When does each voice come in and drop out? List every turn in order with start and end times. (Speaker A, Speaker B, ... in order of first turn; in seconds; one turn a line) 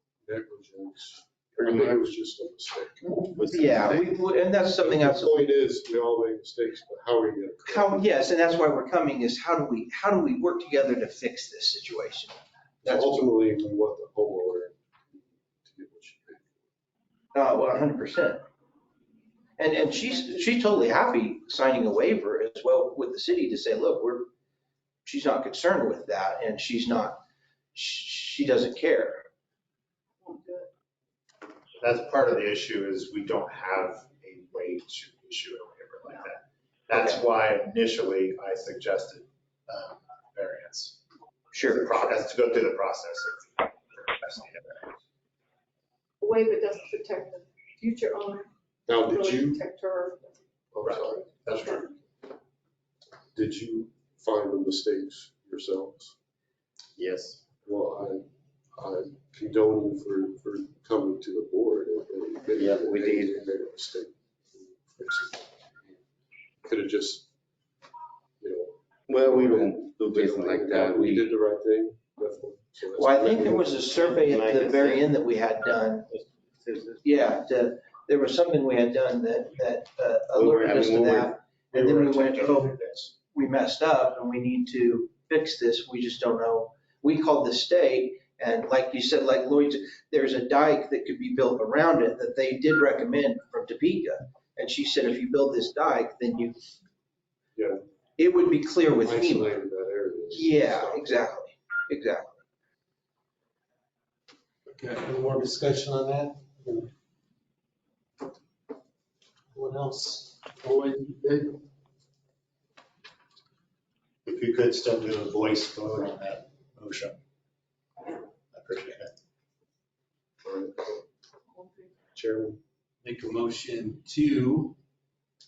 Speaker A: 0.2-3.9
Speaker B: 1.6-2.1
Speaker B: 3.4-4.0
Speaker C: 3.4-5.5
Speaker A: 4.8-8.1
Speaker C: 7.7-13.3
Speaker A: 12.8-16.6
Speaker C: 17.3-18.4
Speaker C: 19.6-24.3
Speaker C: 25.0-27.2
Speaker C: 27.7-29.3
Speaker D: 30.2-30.6
Speaker E: 31.8-41.0
Speaker C: 41.5-42.0
Speaker E: 41.6-44.9
Speaker D: 46.2-48.5
Speaker A: 48.9-49.6
Speaker D: 49.1-50.2
Speaker A: 50.7-51.6
Speaker E: 50.8-51.9
Speaker A: 53.3-56.1
Speaker B: 57.0-57.5
Speaker A: 57.6-65.4
Speaker B: 62.5-63.4
Speaker A: 66.6-67.3
Speaker A: 68.4-73.7
Speaker B: 69.1-71.3
Speaker C: 72.9-76.1
Speaker B: 73.2-75.1
Speaker B: 76.1-77.0
Speaker C: 77.0-96.6
Speaker B: 80.3-82.7
Speaker A: 97.5-97.8
Speaker C: 98.2-99.5
Speaker A: 99.0-101.2
Speaker C: 100.3-102.4
Speaker F: 104.7-106.9
Speaker F: 109.5-111.6
Speaker E: 114.2-117.2
Speaker E: 118.5-119.1
Speaker A: 120.4-121.0
Speaker A: 122.2-122.6
Speaker F: 123.0-124.8